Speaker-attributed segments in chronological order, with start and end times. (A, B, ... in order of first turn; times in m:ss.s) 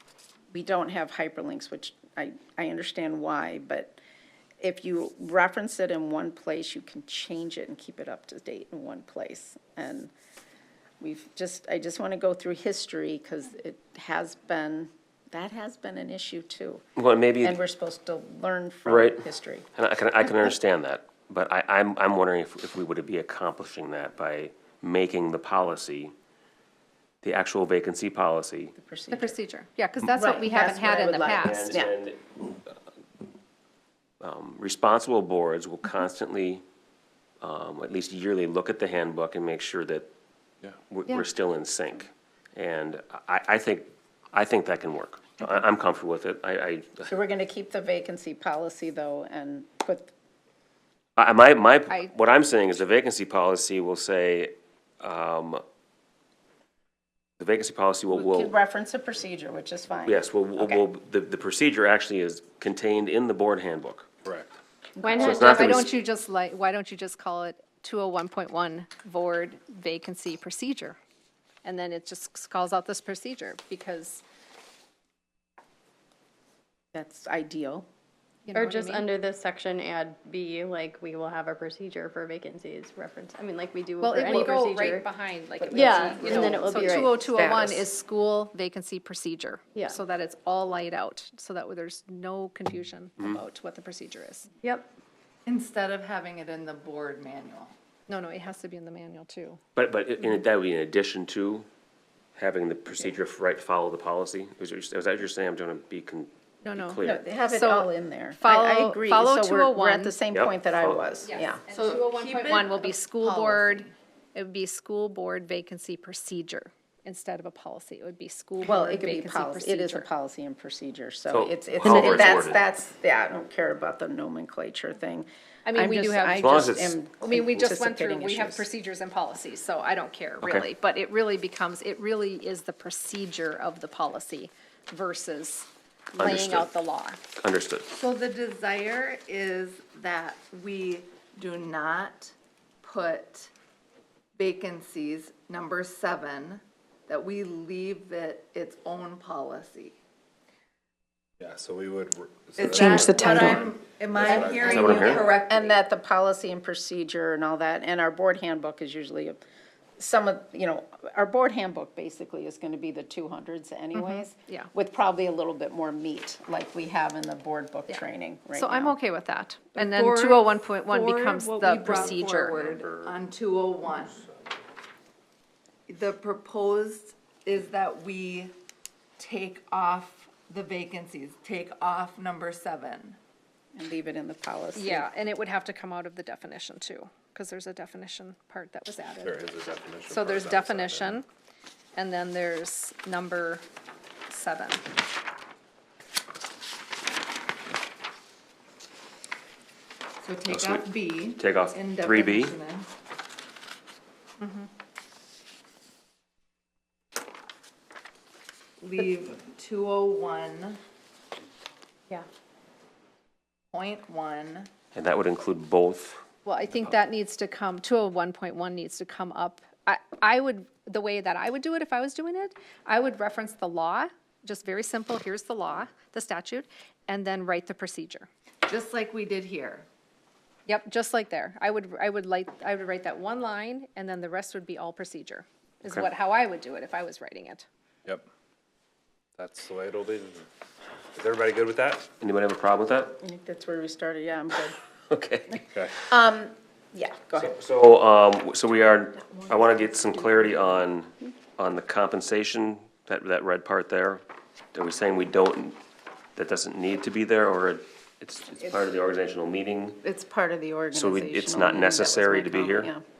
0:00.5-0:04.0 A
0:04.6-0:10.1 A
0:11.0-0:16.8 A
0:17.0-0:17.6 B
0:17.4-0:19.6 A
0:18.8-0:19.2 B
0:19.7-0:26.1 B
0:27.2-0:28.7 B
0:28.8-0:29.4 A
0:29.1-0:31.7 C
0:30.0-0:31.9 A
0:31.3-0:32.4 B
0:34.2-0:36.6 B
0:37.4-0:40.1 B
0:40.9-0:47.1 B
0:47.1-0:50.1 A
0:51.2-0:55.6 B
0:57.4-0:58.5 B
0:58.1-1:00.8 A
1:00.0-1:04.1 B
1:04.2-1:04.5 D
1:05.0-1:05.7 A
1:05.0-1:05.7 E
1:05.2-1:05.9 B
1:05.5-1:11.0 C
1:11.6-1:14.2 C
1:16.9-1:17.8 A
1:18.4-1:19.0 C
1:18.5-1:25.0 E
1:24.0-1:34.5 C
1:25.6-1:27.8 A
1:25.7-1:27.1 E
1:34.6-1:34.9 E
1:35.4-1:37.8 F
1:38.1-1:39.6 C
1:39.8-1:41.7 B
1:42.4-1:47.2 B
1:46.6-1:47.9 C
1:47.0-1:51.6 A
1:48.4-1:50.2 C
1:50.3-1:51.0 B
1:51.2-2:00.1 C
1:51.7-1:53.9 F
1:58.6-2:08.6 A
2:01.3-2:02.6 B
2:05.6-2:06.5 C
2:06.4-2:07.0 B
2:07.2-2:17.2 C
2:16.2-2:16.7 B
2:17.4-2:17.8 B
2:17.9-2:23.5 F
2:24.4-2:30.0 F
2:31.4-2:35.2 D
2:32.6-2:35.7 F
2:32.7-2:33.6 C
2:32.7-2:33.6 A
2:34.3-2:39.4 A
2:34.6-2:35.3 B
2:40.0-2:49.0 A
2:43.9-2:44.7 C
2:47.9-2:52.6 C
2:49.7-2:54.3 F
2:51.8-2:53.2 D
2:55.9-2:58.5 F
2:59.2-3:03.2 F
3:03.7-3:05.1 A
3:04.7-3:09.4 C
3:09.2-3:11.2 D
3:10.1-3:11.2 C
3:11.9-3:13.6 C
3:14.3-3:14.8 C
3:20.2-3:22.9 F
3:20.5-3:22.5 B
3:24.4-3:24.7 C
3:28.8-3:30.8 F
3:33.7-3:34.7 F
3:34.9-3:36.2 B
3:36.4-3:48.3 C
3:48.6-3:49.9 F
3:50.6-3:57.6 C
3:59.4-4:00.4 D
4:01.2-4:02.1 D
4:02.2-4:03.2 B
4:03.2-4:04.8 A
4:05.1-4:05.6 B
4:05.6-4:05.9 D
4:06.1-4:07.5 A
4:07.4-4:14.2 B
4:09.2-4:10.8 A
4:14.7-4:15.8 B
4:16.4-4:20.0 B
4:20.0-4:23.0 A
4:20.9-4:22.9 B